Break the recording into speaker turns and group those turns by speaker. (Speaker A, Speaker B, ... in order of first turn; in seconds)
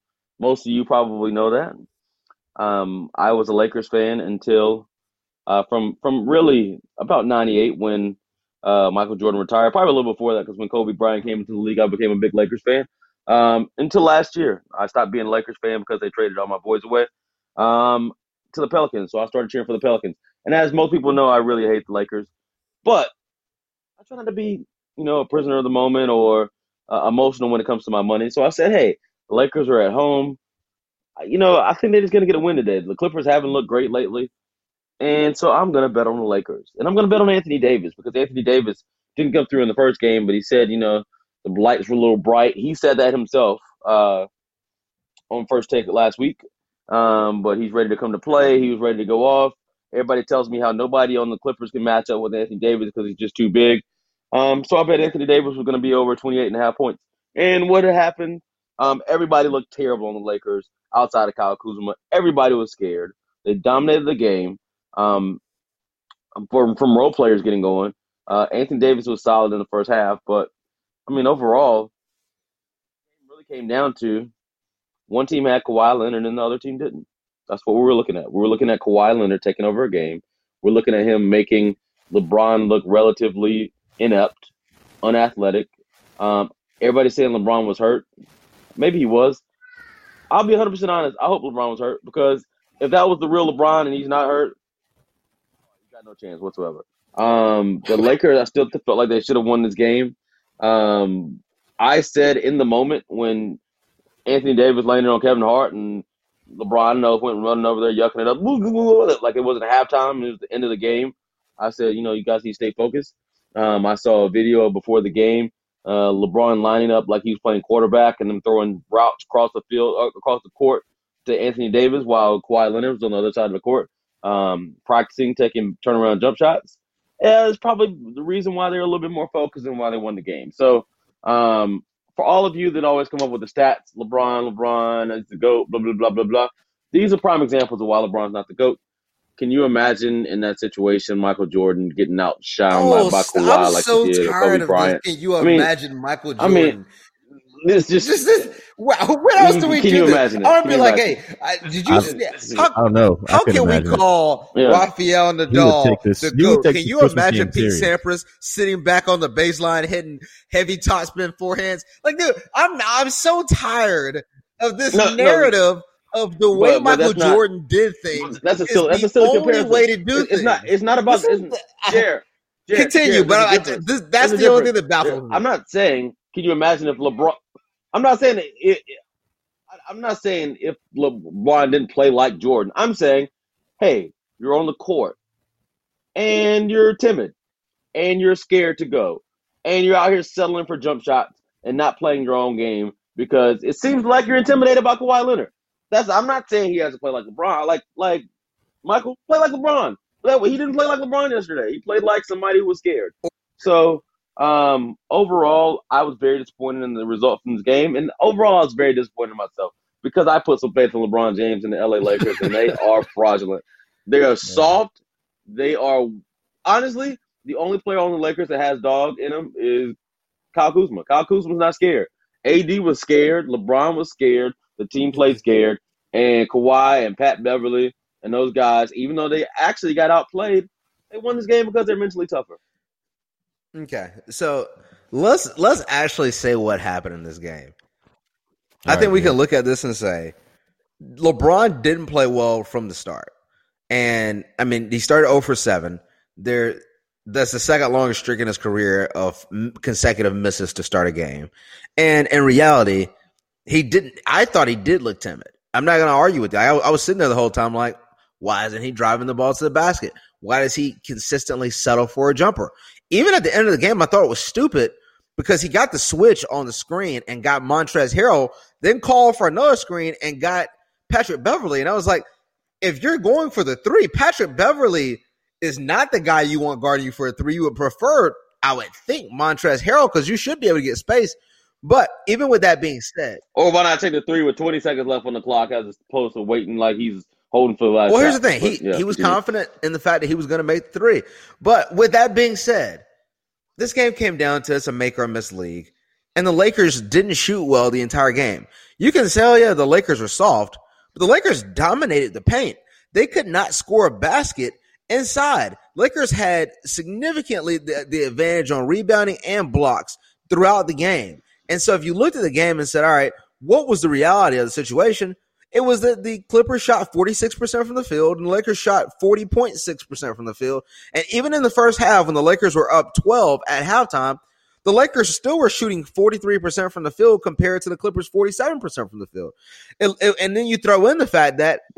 Speaker A: 0.4-1.8, 2.6-4.9, 5.5-22.3, 22.8-23.1, 24.0-30.4, 31.2-34.3, 35.0-44.3, 45.3-65.4, 66.3-70.5, 71.1-71.9, 73.2-74.3, 75.1-84.5, 85.0-88.0, 88.8-89.4, 90.3-94.5, 95.9-103.6, 104.2-138.8, 139.4-145.7, 146.4-146.8, 147.6-148.5, 149.4-151.1, 151.9-152.7, 154.5-154.8, 164.9-165.5, 166.5-167.4, 168.1-177.4, 177.9-179.0, 179.8-185.2, 186.2-187.3, 187.9-198.2, 198.8-214.9, 215.5-219.9, 220.5-232.6, 283.6-289.4
Speaker B: 142.7-146.9, 148.0-152.8, 153.3-172.0, 172.7-175.4, 233.7-237.7, 238.8-240.3, 241.0-243.3, 243.9-253.1, 253.7-272.3, 272.8-283.4, 288.1-293.0, 293.8-331.8
Speaker C: 151.8-152.1, 152.7-154.0, 155.5-157.9, 238.8-239.3